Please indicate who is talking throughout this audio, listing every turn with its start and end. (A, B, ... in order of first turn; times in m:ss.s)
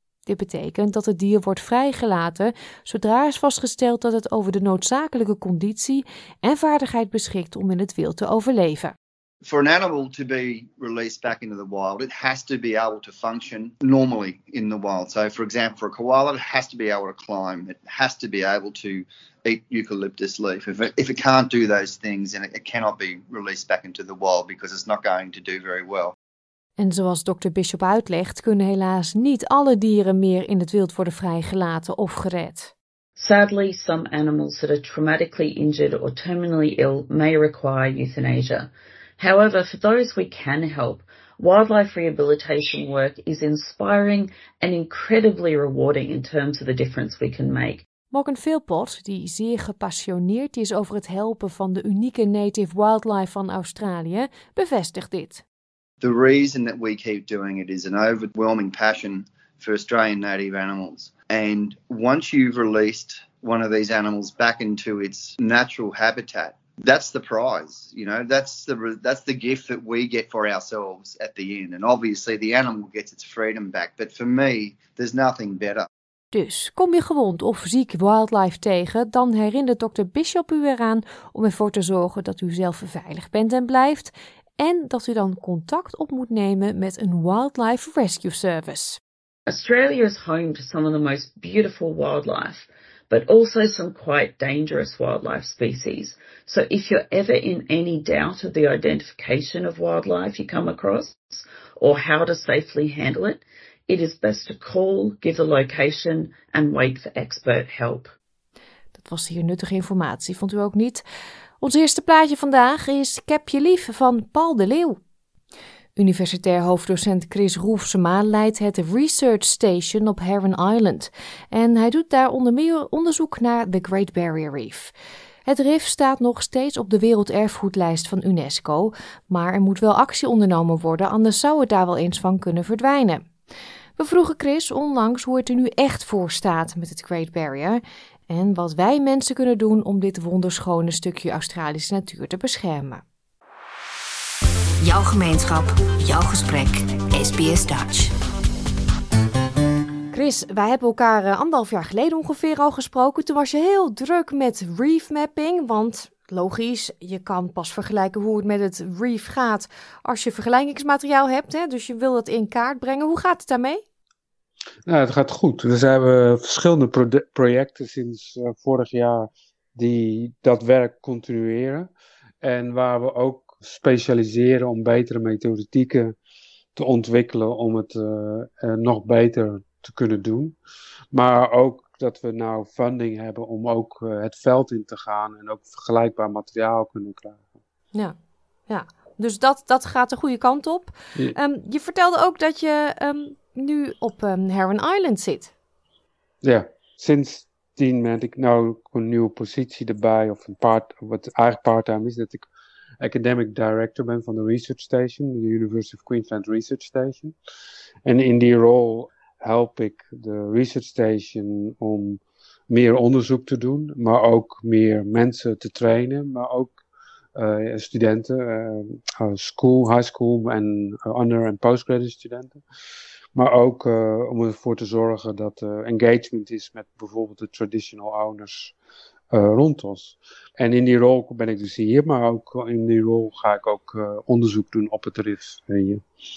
0:00.3-0:08.9 A
0:09.4-0:26.2 B
0:26.8-0:32.7 A
0:33.2-0:47.8 C
0:48.1-0:55.4 A
0:56.0-1:15.9 B
1:16.3-1:29.0 A
1:29.5-1:48.1 C
1:49.0-1:51.0 A
1:51.6-1:55.0 A
1:56.0-2:04.9 A
2:05.4-2:13.2 A
2:14.0-2:23.0 A
2:24.8-2:28.1 D
2:30.1-2:43.8 A
2:44.8-2:51.9 E
2:52.4-2:56.2 E
2:56.8-3:00.6 E
3:01.1-3:07.5 E
3:08.7-3:15.5 A
3:16.4-3:22.5 E
3:23.0-3:27.4 E
3:28.0-3:36.8 E
3:37.4-3:42.6 E
3:43.3-3:48.7 E
3:49.3-3:56.0 E